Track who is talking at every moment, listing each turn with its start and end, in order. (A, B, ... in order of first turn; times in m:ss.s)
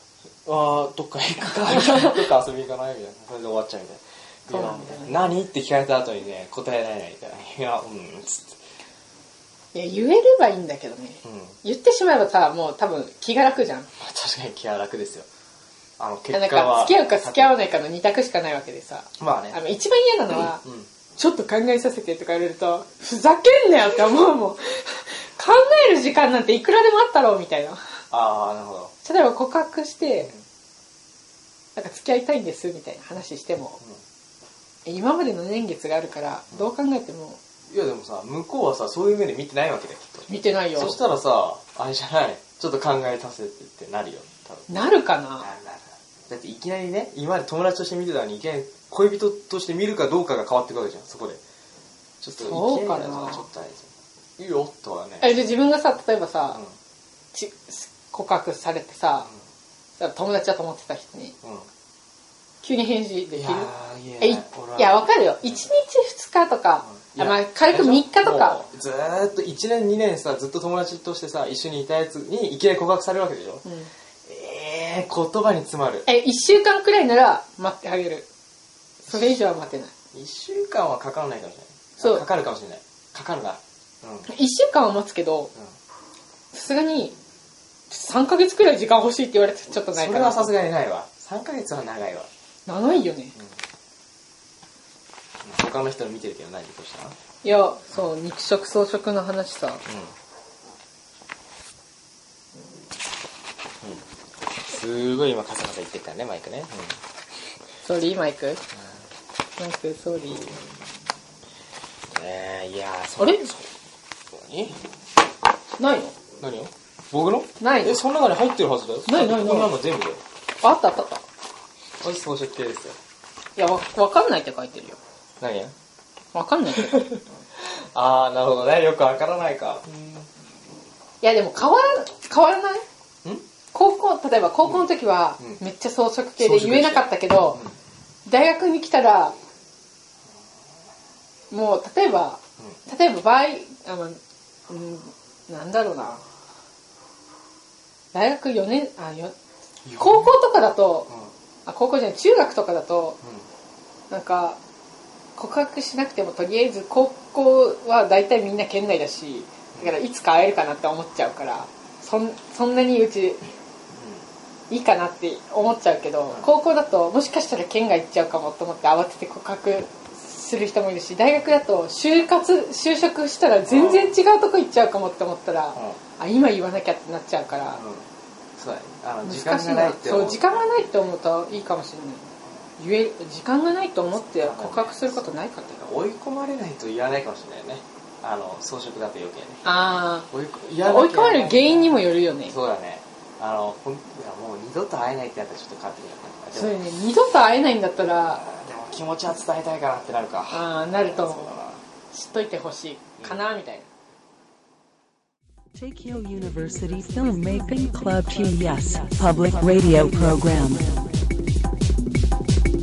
0:00.4-0:08.6 A
0:01.7-0:02.2 B
0:04.5-0:05.2 B
0:09.7-0:13.9 B
0:11.2-0:11.6 A
0:14.0-0:15.3 A
0:16.0-0:17.6 A
0:16.3-0:20.6 B
0:19.2-0:19.6 A
0:20.6-0:20.9 A
0:21.2-0:27.8 B
0:28.1-0:28.9 A
0:29.0-0:30.3 B
0:31.8-0:33.8 B
0:34.8-0:37.4 B
0:37.7-0:44.7 A
0:40.3-0:41.0 B
0:44.7-0:45.5 B
0:45.4-0:51.4 A
0:52.2-0:55.4 A
0:52.4-0:53.4 B
0:55.2-0:56.6 B
0:57.3-0:59.3 B
1:00.0-1:01.4 B
1:01.4-1:01.7 A
1:02.6-1:08.6 B
1:03.3-1:05.7 A
1:06.9-1:13.6 A
1:13.6-1:13.9 B
1:14.3-1:16.1 A
1:16.1-1:18.3 B
1:19.1-1:19.4 A
1:19.1-1:19.9 B
1:20.1-1:24.3 A
1:24.3-1:25.5 B
1:26.5-1:27.2 B
1:27.9-1:30.5 B
1:29.9-1:32.3 A
1:32.7-1:33.4 B
1:35.4-1:37.2 A
1:37.4-1:39.8 B
1:44.6-1:47.0 A
1:47.8-1:48.6 B
1:49.6-1:50.5 B
1:52.1-1:53.7 A
1:53.2-1:53.5 B
1:54.3-1:54.8 A
1:55.8-1:56.2 B
1:56.4-2:00.2 A
1:57.6-1:58.0 B
1:59.1-1:59.7 B
2:00.6-2:01.2 B
2:02.0-2:03.0 A
2:03.6-2:05.0 B
2:05.4-2:05.7 A
2:06.3-2:07.2 B
2:06.8-2:10.2 A
2:11.2-2:12.8 B
2:13.7-2:17.6 B
2:16.4-2:17.7 A
2:18.3-2:19.4 B
2:21.5-2:24.2 B
2:24.7-2:26.2 B
2:28.1-2:29.4 B
2:29.8-2:30.4 A
2:30.0-2:31.1 B
2:31.7-2:33.2 B
2:34.1-2:34.6 B
2:35.4-2:43.4 B
2:43.9-2:44.2 A
2:44.7-2:57.8 B
2:53.7-2:54.2 A
2:57.7-3:00.6 A
2:59.2-3:05.8 B
3:04.4-3:09.6 A
3:09.6-3:10.3 B
3:10.3-3:16.7 A
3:10.8-3:12.5 B
3:16.5-3:18.4 B
3:18.4-3:21.8 A
3:20.5-3:21.5 B
3:22.1-3:23.9 B
3:25.8-3:31.1 C